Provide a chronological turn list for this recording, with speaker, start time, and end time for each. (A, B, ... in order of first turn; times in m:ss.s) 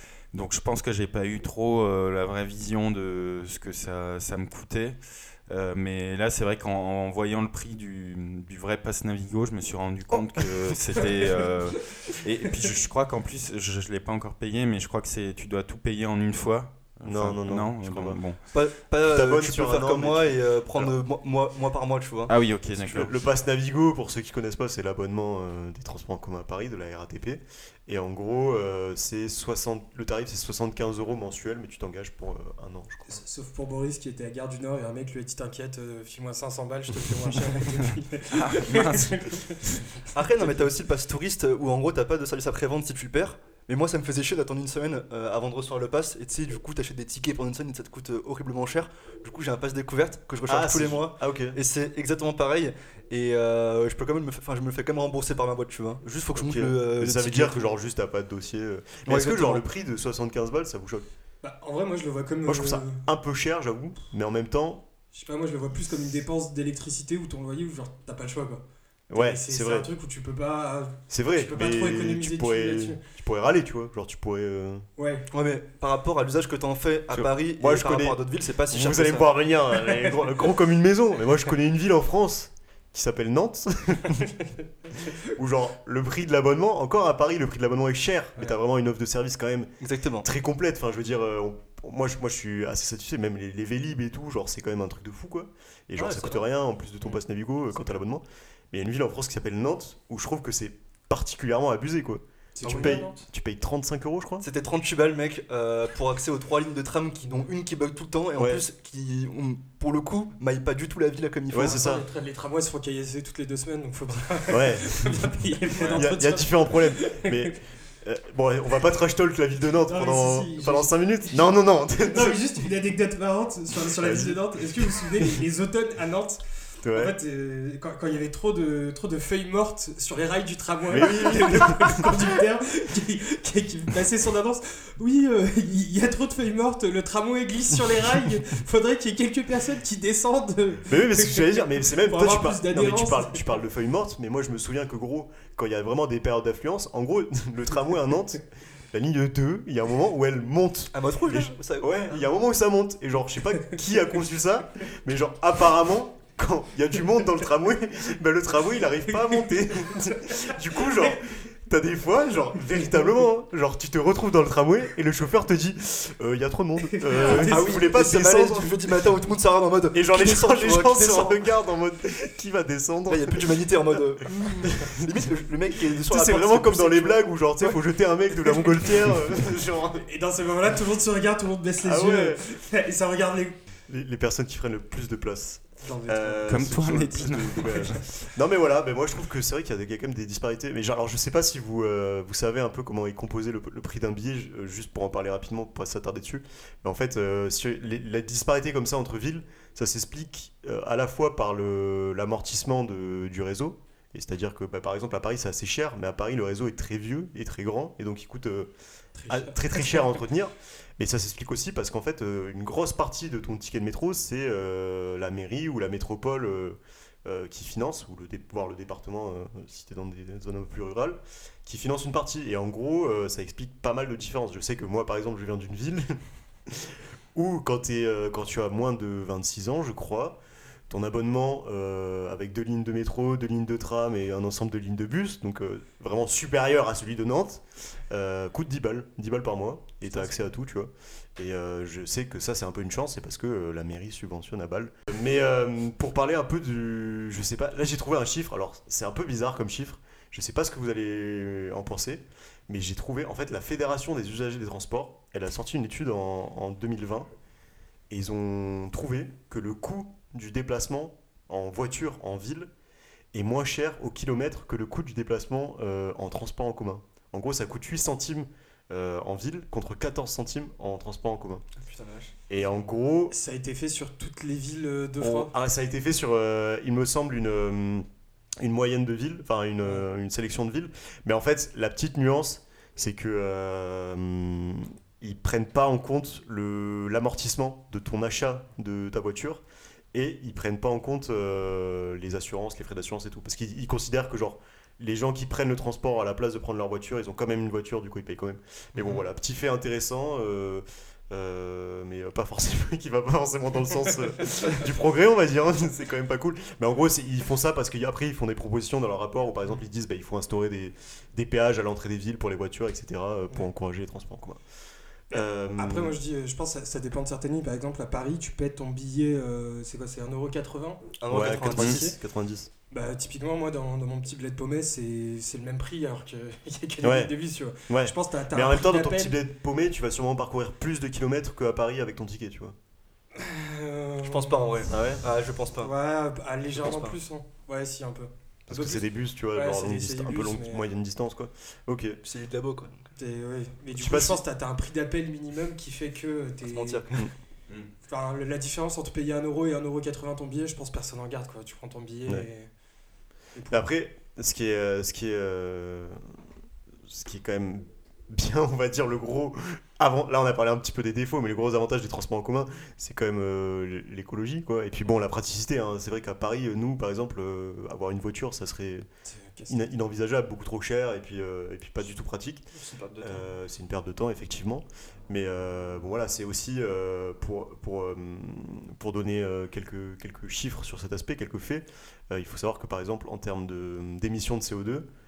0:00.3-0:18.4 A
0:17.0-0:18.2 B
0:18.5-0:22.3 C
0:19.0-0:21.0 B
0:22.3-0:23.2 A
0:22.8-0:33.2 B
0:33.1-0:39.8 D
0:38.3-0:39.3 A
0:40.1-0:57.7 C
0:50.5-0:51.6 B
0:56.3-1:01.1 B
0:59.1-0:59.6 C
1:01.4-1:03.0 D
1:02.5-1:04.8 B
1:05.1-1:08.6 D
1:09.1-1:09.9 B
1:09.2-1:13.0 D
1:11.1-1:14.9 B
1:15.0-1:15.3 D
1:15.3-1:19.3 C
1:17.1-1:24.3 B
1:25.3-1:29.7 B
1:29.8-1:30.3 C
1:30.2-1:44.5 B
1:36.0-1:36.4 C
1:42.6-1:43.2 D
1:42.6-1:43.1 C
1:44.4-1:51.8 C
1:48.4-1:48.6 B
1:51.5-1:52.0 B
1:51.6-1:57.6 D
1:54.5-2:02.4 B
1:59.9-2:01.5 D
2:02.0-2:06.4 D
2:04.0-2:05.4 B
2:06.8-2:07.2 B
2:06.9-2:23.4 D
2:10.9-2:12.3 B
2:20.8-2:48.8 B
2:30.9-2:32.2 C
2:39.2-2:41.2 D
2:46.9-2:47.8 D
2:47.3-2:51.4 C
2:49.9-2:53.4 B
2:53.1-2:57.7 C
2:54.6-2:55.0 B
2:55.9-3:00.0 B
3:00.0-3:03.6 D
3:01.8-3:02.4 B
3:03.9-3:28.7 B
3:05.8-3:07.0 D
3:06.5-3:08.0 A
3:29.2-3:30.2 D
3:29.3-3:46.1 B
3:46.7-3:50.4 B
3:50.9-4:17.3 B
4:00.1-4:00.5 D
4:18.1-4:22.7 B
4:23.3-4:31.6 B
4:31.8-4:32.4 C
4:32.5-4:33.4 B
4:33.3-4:35.5 D
4:35.2-4:38.1 B
4:38.6-5:14.6 B
5:15.3-5:16.2 B
5:15.3-5:22.2 D
5:21.2-5:22.2 C
5:21.3-5:22.7 B
5:22.9-5:29.4 D
5:27.0-5:27.3 B
5:27.9-5:32.8 B
5:33.4-5:34.9 D
5:34.2-5:35.9 C
5:34.9-5:35.2 B
5:35.8-5:40.9 D
5:36.7-5:37.2 C
5:38.7-5:42.2 B
5:42.2-5:43.0 C
5:43.2-5:47.0 D
5:44.0-5:44.4 B
5:46.7-5:47.3 C
5:48.1-5:52.7 D
5:53.6-5:53.8 D
5:53.7-5:56.4 B
5:57.0-6:09.1 B
6:09.3-6:09.8 D
6:09.7-6:12.7 B
6:12.8-6:13.5 C
6:13.2-6:25.1 B